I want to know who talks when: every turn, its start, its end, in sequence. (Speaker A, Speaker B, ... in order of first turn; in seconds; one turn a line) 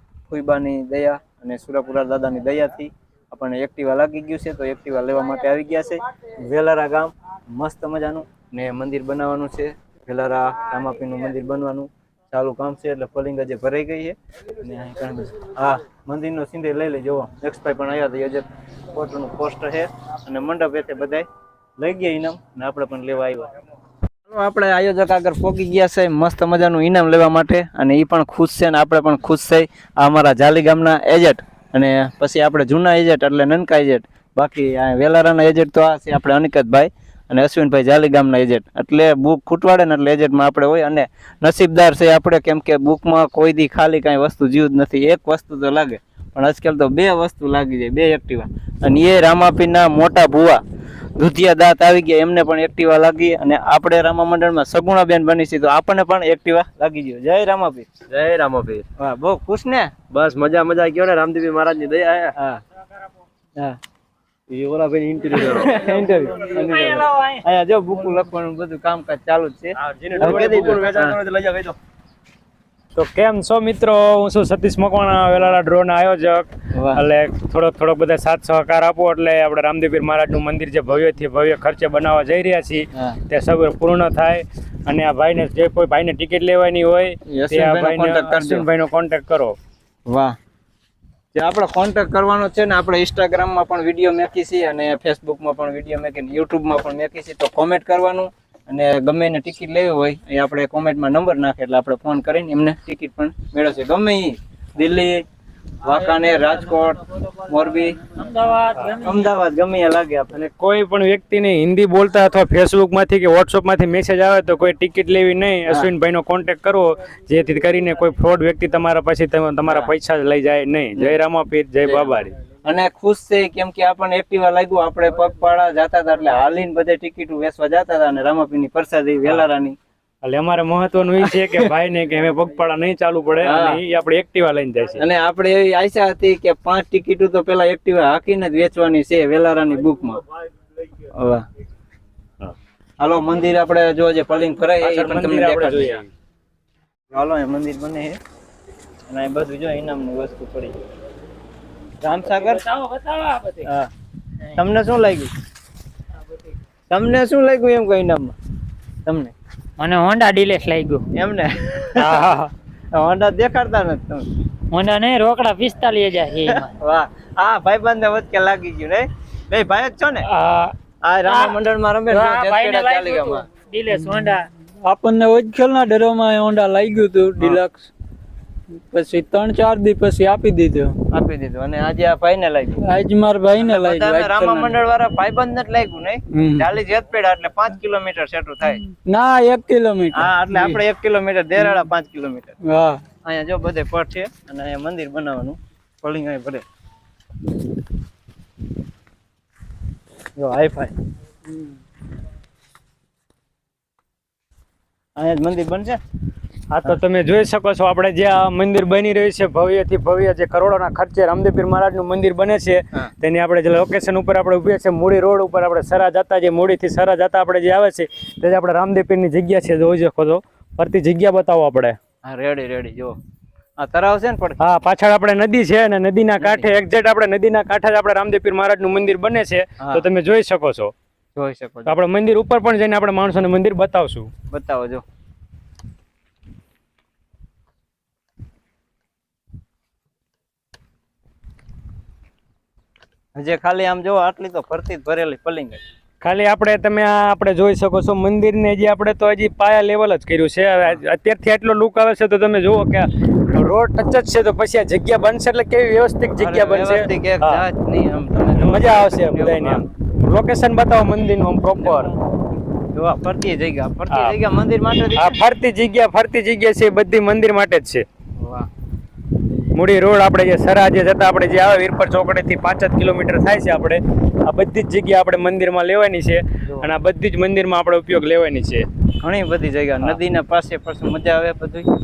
Speaker A: 0.3-21.3
Speaker A: 21.8-23.5
Speaker A: 24.2-50.6
Speaker A: 51.1-57.9
Speaker B: 58.1-58.8
Speaker A: 59.0-59.9
Speaker B: 60.1-62.3
Speaker A: 62.4-62.6
Speaker B: 64.5-65.8
Speaker A: 65.3-71.2
Speaker C: 70.0-71.1
Speaker B: 70.1-71.8
Speaker C: 73.0-89.6
Speaker A: 76.7-77.0
Speaker A: 87.3-88.7
Speaker A: 90.1-90.3
Speaker A: 91.3-105.2
Speaker A: 105.8-108.0
Speaker D: 108.2-109.1
Speaker A: 108.9-110.3
Speaker C: 110.3-122.3
Speaker A: 119.7-119.9
Speaker A: 121.8-129.8
Speaker C: 130.2-135.0
Speaker A: 131.2-131.7
Speaker A: 133.4-133.8
Speaker A: 135.0-140.2
Speaker A: 141.0-141.4
Speaker A: 143.0-146.0
Speaker C: 144.8-146.1
Speaker A: 147.1-148.2
Speaker A: 149.1-150.8
Speaker A: 152.0-152.8
Speaker D: 152.8-153.5
Speaker A: 153.6-153.9
Speaker A: 154.4-155.3
Speaker A: 156.9-158.3
Speaker A: 159.1-159.3
Speaker D: 159.8-161.1
Speaker A: 161.1-162.3
Speaker A: 162.9-164.2
Speaker D: 164.7-166.7
Speaker A: 166.4-170.3
Speaker D: 170.3-170.8
Speaker A: 171.0-173.5
Speaker D: 171.3-171.6
Speaker D: 172.1-174.5
Speaker E: 173.9-177.9
Speaker E: 178.7-181.0
Speaker A: 181.1-182.8
Speaker E: 182.8-184.8
Speaker A: 183.6-188.8
Speaker E: 186.3-186.7
Speaker E: 188.7-190.8
Speaker A: 190.1-192.6
Speaker E: 192.6-193.0
Speaker A: 193.2-196.6
Speaker A: 200.4-200.9
Speaker A: 205.2-206.0
Speaker C: 206.7-222.0
Speaker A: 222.2-223.2
Speaker A: 223.8-224.6
Speaker C: 224.6-230.9
Speaker A: 226.4-226.7
Speaker A: 229.8-230.1
Speaker A: 231.3-231.9
Speaker C: 231.9-234.3
Speaker A: 234.5-235.0
Speaker A: 243.3-245.8
Speaker C: 246.2-257.6
Speaker A: 256.4-259.9
Speaker C: 258.5-262.1
Speaker A: 261.8-262.1
Speaker A: 262.9-265.4
Speaker C: 264.1-264.4
Speaker C: 265.1-268.1
Speaker A: 268.4-268.7
Speaker C: 269.7-278.9
Speaker A: 279.2-281.9